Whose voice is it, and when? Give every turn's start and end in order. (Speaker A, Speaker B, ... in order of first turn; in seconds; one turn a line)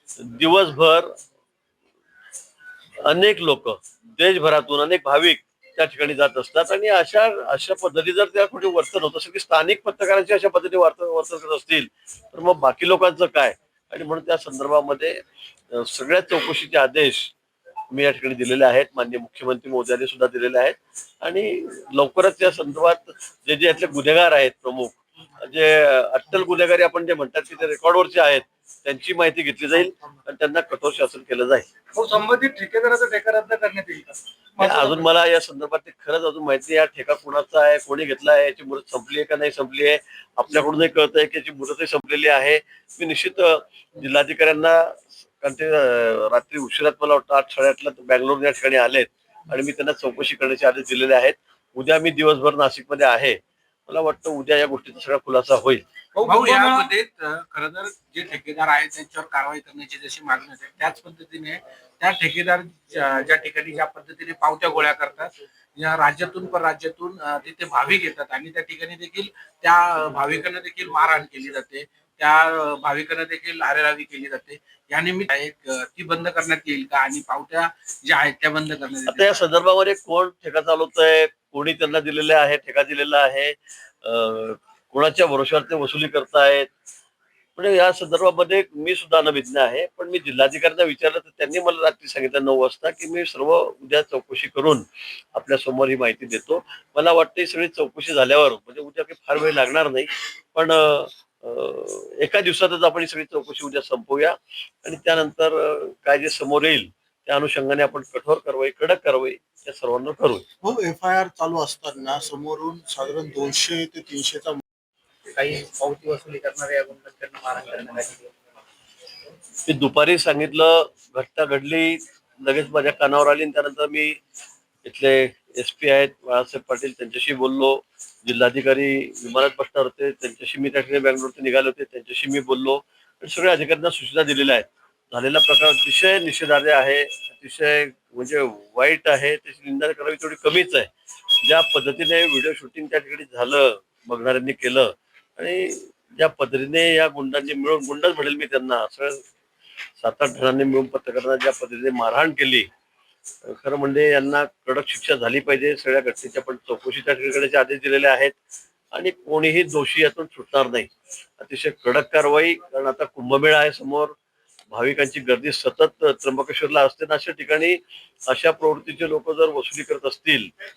Speaker A: 0.2-1.1
Speaker A: 3.0-15.2
Speaker A: 15.7-17.3
Speaker A: 17.9-31.6
Speaker B: 31.9-35.0
Speaker A: 34.6-55.8
Speaker C: 56.1-79.5
Speaker B: 56.3-56.8
Speaker A: 79.0-86.7
Speaker A: 87.6-110.4
Speaker D: 110.6-114.6
Speaker E: 115.3-118.3
Speaker A: 119.7-124.2
Speaker A: 124.8-140.9
Speaker A: 141.4-149.2
Speaker A: 150.0-152.7
Speaker A: 153.5-158.3
Speaker A: 158.9-160.9
Speaker A: 161.4-164.1
Speaker A: 164.7-170.5